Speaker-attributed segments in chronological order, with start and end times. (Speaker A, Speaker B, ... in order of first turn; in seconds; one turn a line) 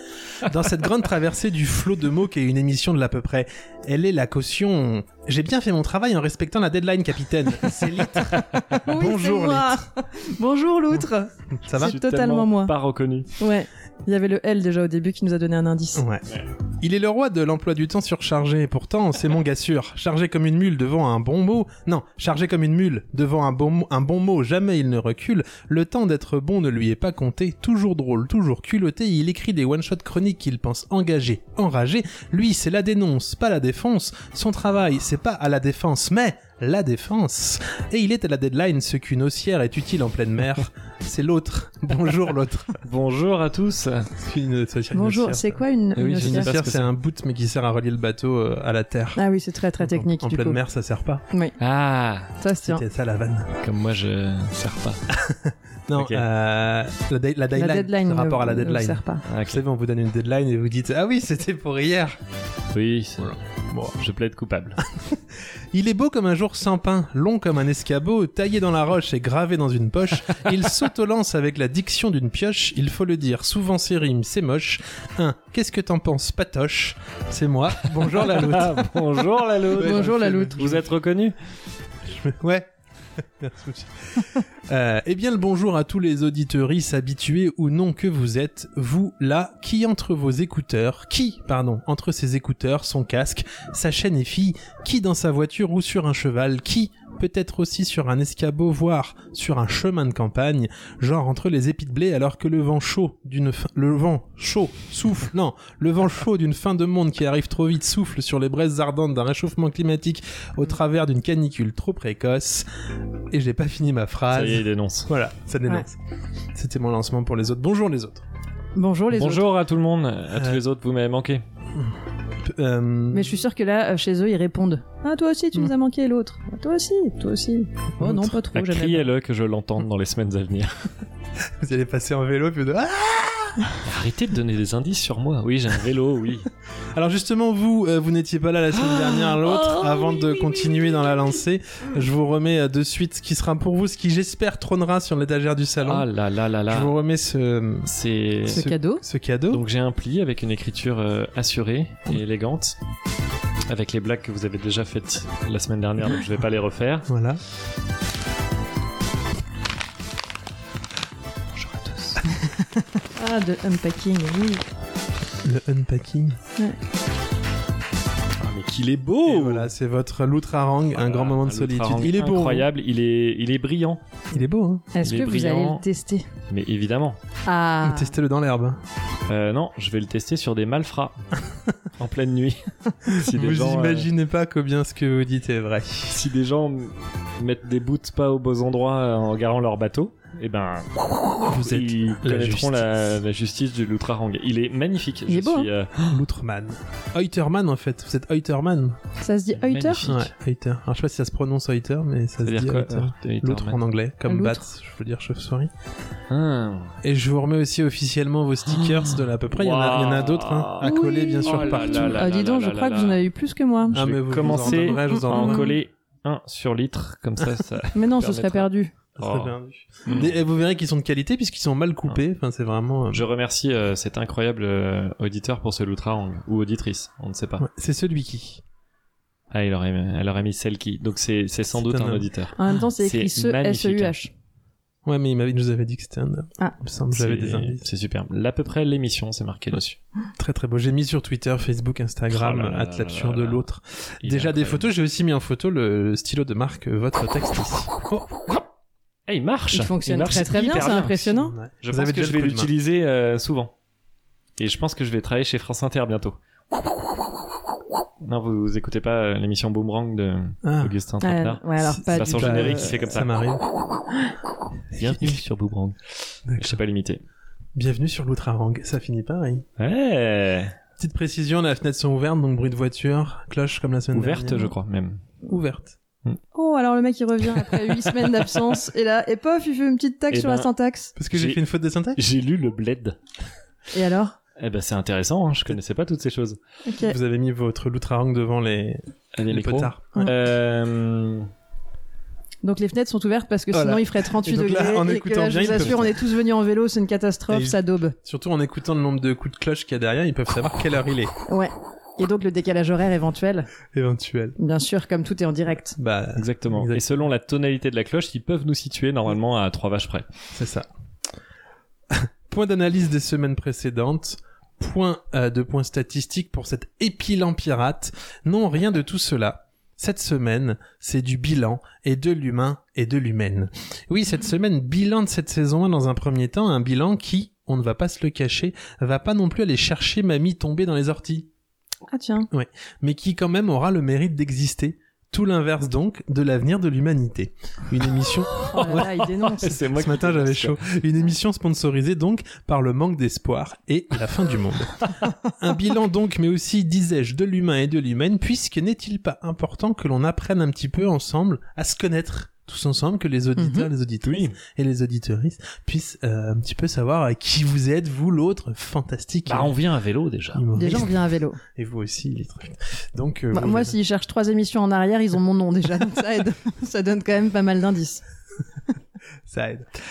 Speaker A: 0.4-9.8
Speaker B: 8.2-8.8
Speaker C: 8.8-12.7
Speaker A: 10.9-11.9
Speaker B: 11.8-13.3
Speaker C: 13.4-16.0
Speaker A: 15.9-16.2
Speaker A: 16.8-42.8
Speaker B: 42.8-44.1
Speaker A: 44.2-45.6
Speaker C: 44.9-46.5
Speaker B: 45.9-46.9
Speaker A: 46.2-49.2
Speaker C: 49.1-50.6
Speaker A: 49.8-51.2
Speaker C: 51.3-51.6
Speaker B: 51.6-52.3
Speaker C: 52.4-52.8
Speaker A: 52.6-53.5
Speaker B: 53.6-55.0
Speaker A: 55.1-62.2
Speaker B: 55.9-56.2
Speaker C: 57.5-59.2
Speaker B: 59.2-59.6
Speaker B: 62.7-63.4
Speaker A: 63.2-64.0
Speaker B: 63.9-64.8
Speaker A: 64.9-65.2
Speaker A: 65.7-78.9
Speaker B: 77.9-81.3
Speaker A: 79.7-80.7
Speaker C: 79.8-80.9
Speaker A: 82.0-82.7
Speaker A: 83.4-112.6
Speaker A: 113.3-116.0
Speaker B: 114.3-115.1
Speaker A: 116.5-118.2
Speaker C: 118.7-119.5
Speaker B: 119.1-121.4
Speaker A: 120.3-120.6
Speaker A: 122.4-123.3
Speaker C: 123.1-129.1
Speaker A: 128.0-128.4
Speaker B: 128.5-130.8
Speaker A: 131.6-133.7
Speaker B: 133.8-136.5
Speaker A: 136.9-146.1
Speaker B: 138.7-141.3
Speaker B: 145.8-146.9
Speaker A: 146.7-147.9
Speaker B: 147.8-148.7
Speaker A: 148.4-149.6
Speaker C: 148.5-149.0
Speaker B: 149.5-152.8
Speaker B: 153.7-157.1
Speaker A: 157.1-157.4
Speaker B: 161.5-162.4
Speaker C: 163.1-164.7
Speaker A: 165.4-166.4
Speaker B: 168.4-169.7
Speaker A: 169.2-172.7
Speaker B: 170.9-174.0
Speaker A: 174.3-174.9
Speaker C: 174.9-176.2
Speaker B: 175.0-175.8
Speaker B: 176.5-177.2
Speaker C: 177.4-178.1
Speaker A: 177.8-178.8
Speaker B: 179.3-181.4
Speaker B: 182.0-184.1
Speaker A: 183.1-186.2
Speaker B: 186.1-196.2
Speaker A: 191.4-192.8
Speaker C: 195.3-195.7
Speaker A: 196.1-199.0
Speaker C: 199.2-200.1
Speaker B: 199.5-200.3
Speaker A: 200.1-205.7
Speaker B: 202.4-203.8
Speaker C: 204.3-204.6
Speaker B: 206.3-207.0
Speaker A: 207.0-212.2
Speaker B: 208.7-213.2
Speaker C: 210.8-215.7
Speaker B: 213.9-219.5
Speaker A: 213.9-215.7
Speaker C: 217.9-218.9
Speaker A: 219.2-223.2
Speaker B: 220.1-220.3
Speaker B: 223.1-227.7
Speaker A: 227.6-228.6
Speaker B: 229.5-234.2
Speaker A: 231.7-232.3
Speaker C: 232.6-234.3
Speaker A: 235.1-237.9
Speaker B: 237.1-240.0
Speaker A: 240.4-248.3
Speaker B: 242.3-243.7
Speaker B: 244.2-244.9
Speaker B: 249.3-253.7
Speaker C: 249.7-251.5
Speaker A: 251.5-252.7
Speaker B: 254.6-256.4
Speaker B: 258.2-263.3
Speaker A: 260.6-260.9
Speaker C: 261.2-263.0
Speaker A: 261.9-263.6
Speaker B: 264.9-266.0
Speaker A: 264.9-265.4
Speaker A: 266.4-266.8
Speaker B: 266.6-267.2
Speaker A: 267.7-269.6
Speaker B: 269.8-270.7
Speaker A: 271.0-274.7
Speaker B: 274.1-275.2
Speaker A: 275.4-276.0
Speaker C: 276.5-281.1
Speaker B: 277.5-278.3
Speaker B: 280.3-280.7
Speaker A: 281.2-282.2
Speaker B: 281.3-281.6
Speaker B: 282.1-283.2
Speaker C: 283.9-284.4
Speaker B: 284.6-286.6
Speaker C: 286.9-287.1
Speaker A: 287.0-290.1
Speaker B: 289.3-291.5
Speaker C: 292.6-298.1
Speaker A: 293.7-296.1
Speaker B: 295.7-296.0
Speaker A: 297.5-301.3
Speaker C: 301.5-303.7
Speaker A: 303.9-304.6
Speaker C: 304.6-305.9
Speaker A: 306.0-307.0
Speaker B: 306.4-310.3
Speaker A: 310.5-310.9
Speaker A: 312.1-331.5
Speaker C: 332.1-332.5
Speaker A: 332.5-339.1
Speaker C: 338.7-339.8
Speaker B: 338.7-340.9
Speaker A: 339.9-359.8
Speaker C: 353.6-353.9
Speaker B: 354.2-354.6
Speaker B: 359.4-360.7
Speaker A: 360.5-361.1
Speaker C: 360.8-361.6
Speaker A: 361.7-363.9
Speaker C: 363.5-368.2
Speaker A: 369.5-369.9